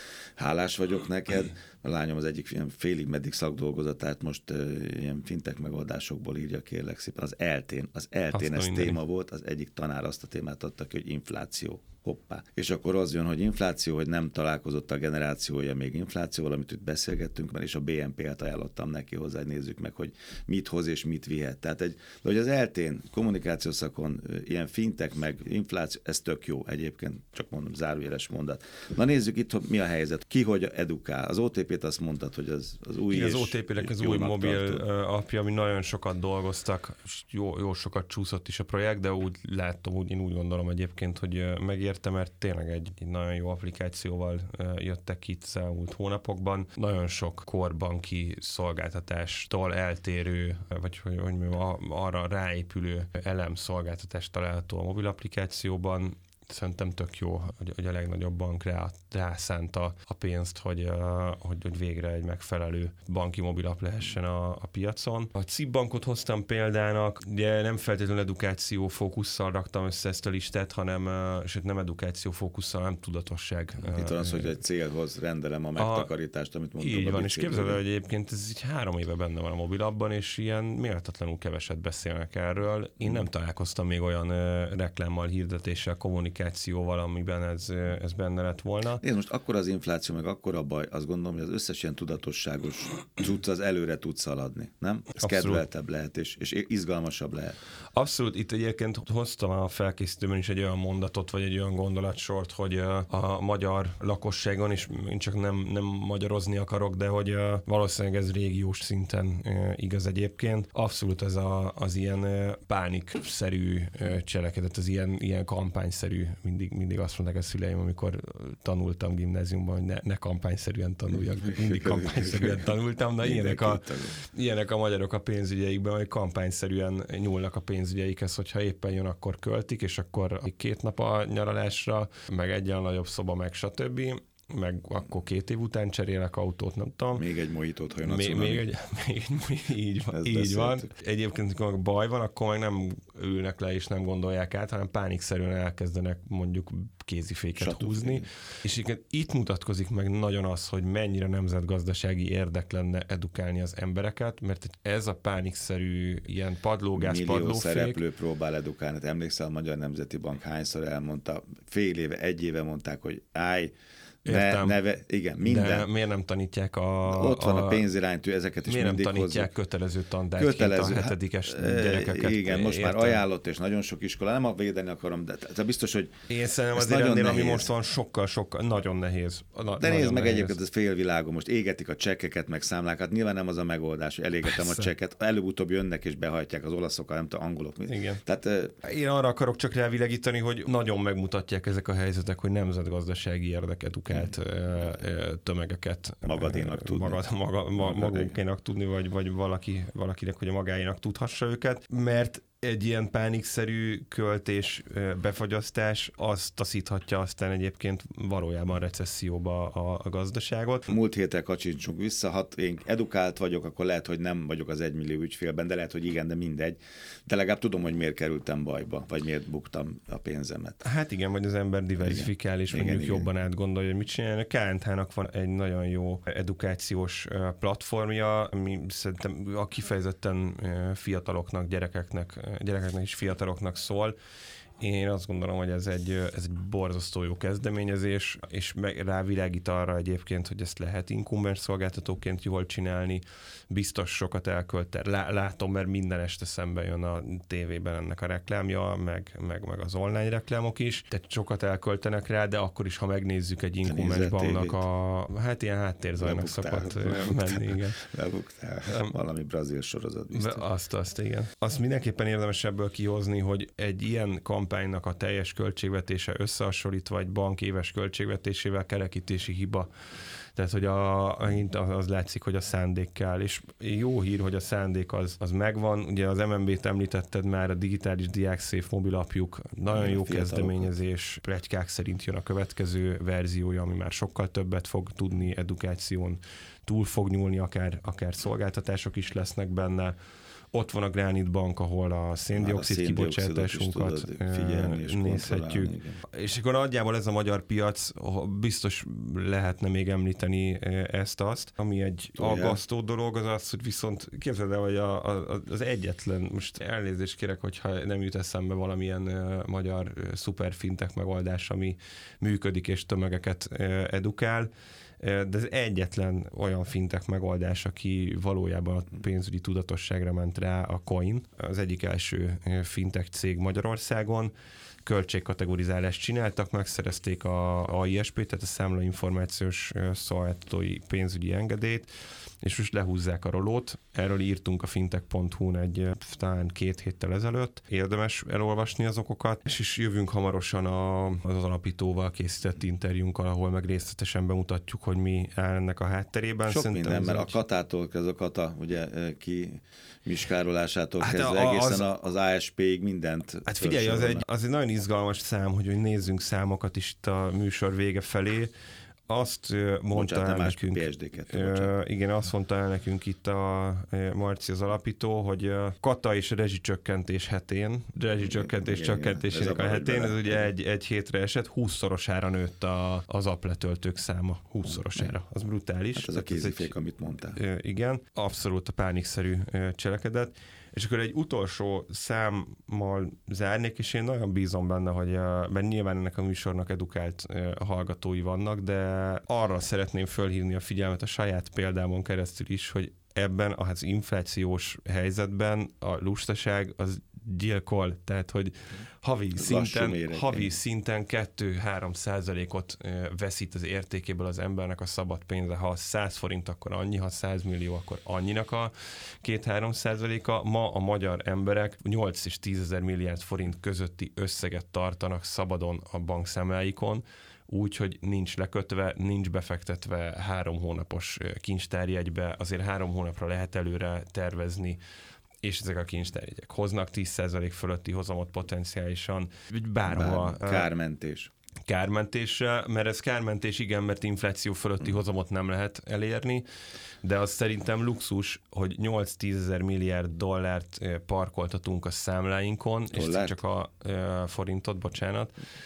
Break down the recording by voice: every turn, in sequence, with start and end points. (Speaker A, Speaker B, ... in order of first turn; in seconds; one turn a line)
Speaker A: 0.4-34.8
Speaker B: 8.3-9.0
Speaker B: 33.1-74.6
Speaker A: 73.9-77.8
Speaker B: 75.8-76.1
Speaker B: 76.8-89.0
Speaker A: 89.0-97.6
Speaker B: 95.2-95.7
Speaker B: 97.9-137.2
Speaker A: 121.4-122.7
Speaker A: 123.2-124.2
Speaker A: 137.2-138.7
Speaker B: 138.0-158.0
Speaker A: 140.1-140.9
Speaker A: 147.6-148.2
Speaker A: 156.9-163.7
Speaker A: 164.2-165.9
Speaker B: 164.2-164.8
Speaker B: 165.4-167.8
Speaker A: 167.1-169.5
Speaker B: 168.7-173.2
Speaker A: 170.4-177.7
Speaker B: 176.3-180.6
Speaker A: 179.8-188.7
Speaker B: 184.4-184.9
Speaker B: 187.8-188.2
Speaker B: 188.8-210.9
Speaker A: 196.2-197.2
Speaker A: 197.8-198.3
Speaker A: 210.9-220.9
Speaker B: 220.8-234.1
Speaker A: 222.0-223.3
Speaker B: 234.8-258.0
Speaker A: 253.8-254.8
Speaker A: 256.2-260.6
Speaker B: 258.9-259.1
Speaker B: 260.3-269.9
Speaker B: 270.5-290.1
Speaker A: 279.9-280.9
Speaker B: 290.7-324.5
Speaker A: 292.5-296.2
Speaker A: 302.4-302.8
Speaker B: 325.0-332.1
Speaker B: 332.6-347.6
Speaker A: 346.6-354.4
Speaker B: 351.2-352.1
Speaker B: 353.6-358.7
Speaker B: 359.3-376.9
Speaker A: 360.1-361.9
Speaker A: 368.4-370.7
Speaker A: 376.1-377.6
Speaker B: 377.5-425.0
Speaker A: 399.6-400.8
Speaker B: 425.6-430.9
Speaker A: 430.1-431.5
Speaker B: 431.9-436.6
Speaker B: 437.2-445.5
Speaker A: 443.1-443.6